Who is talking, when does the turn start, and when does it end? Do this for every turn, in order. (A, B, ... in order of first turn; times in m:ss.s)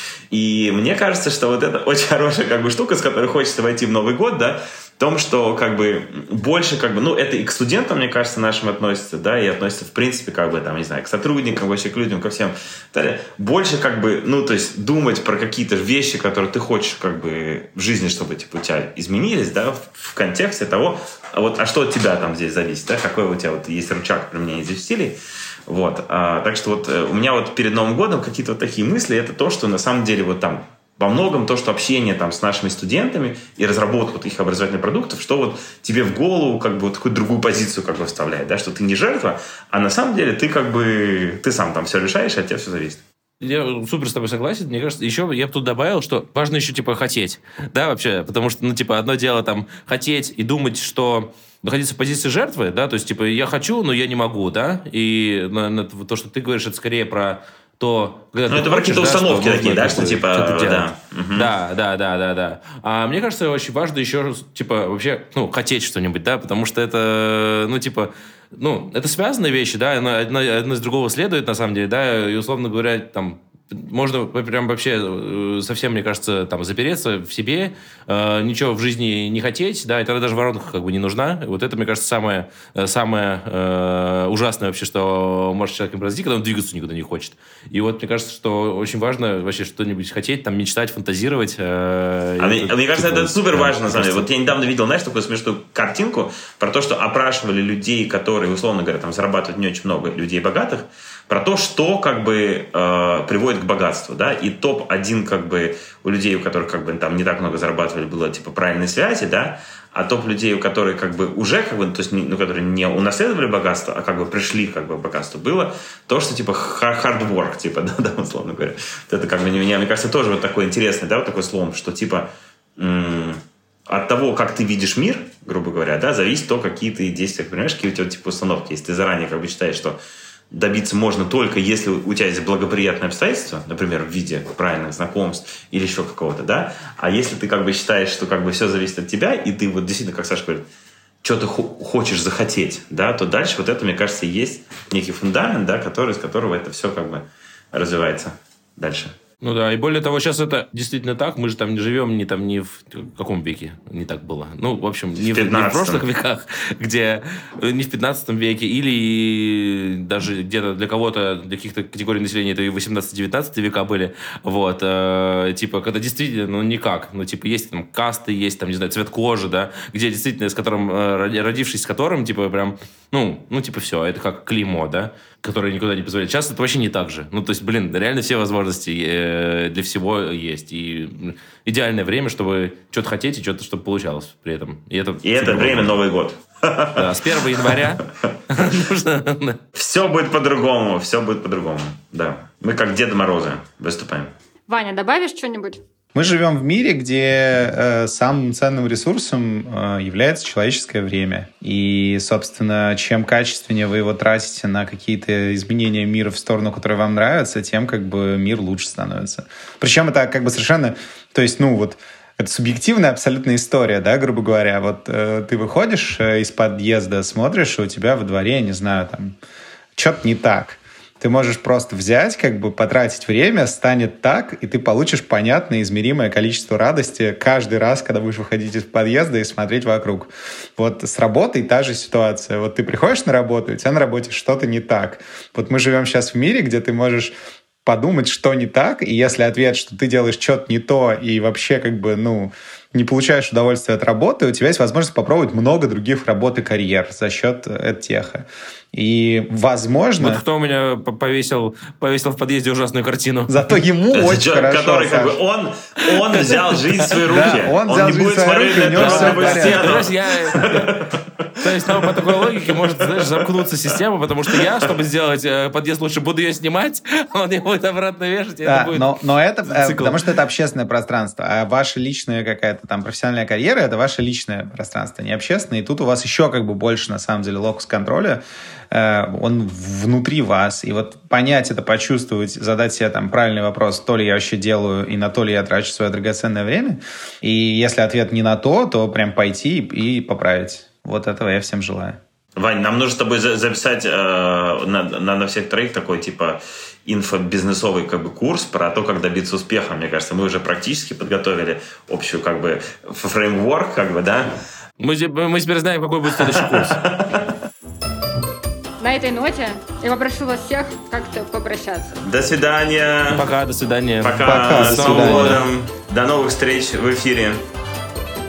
0:00.3-0:25.2 A
0:25.7-0:43.0 A
0:43.4-1:34.4 B
0:58.5-1:01.5 A
1:32.4-2:10.0 A
2:10.5-2:20.6 A
2:21.2-2:29.2 A
2:29.4-3:06.0 B
2:35.2-2:36.0 A
3:05.2-3:07.8 A
3:07.0-3:09.6 B
3:09.8-3:14.3 A
3:14.7-3:15.8 C
3:16.1-3:39.4 D
3:40.0-3:57.3 D
3:57.8-4:10.4 D
4:10.2-4:13.7 B
4:13.5-4:15.4 D
4:14.1-4:23.5 A
4:16.3-4:17.6 B
4:17.2-4:20.0 D
4:18.7-4:20.9 B
4:21.6-4:30.3 B
4:24.5-4:24.9 A
4:28.6-4:52.2 D
4:52.6-5:04.6 A
5:05.0-5:07.0 B
5:06.4-5:07.5 A
5:09.0-5:12.2 C
5:12.2-5:13.5 A
5:13.3-5:15.7 B
5:14.2-5:17.6 A
5:14.4-5:15.7 D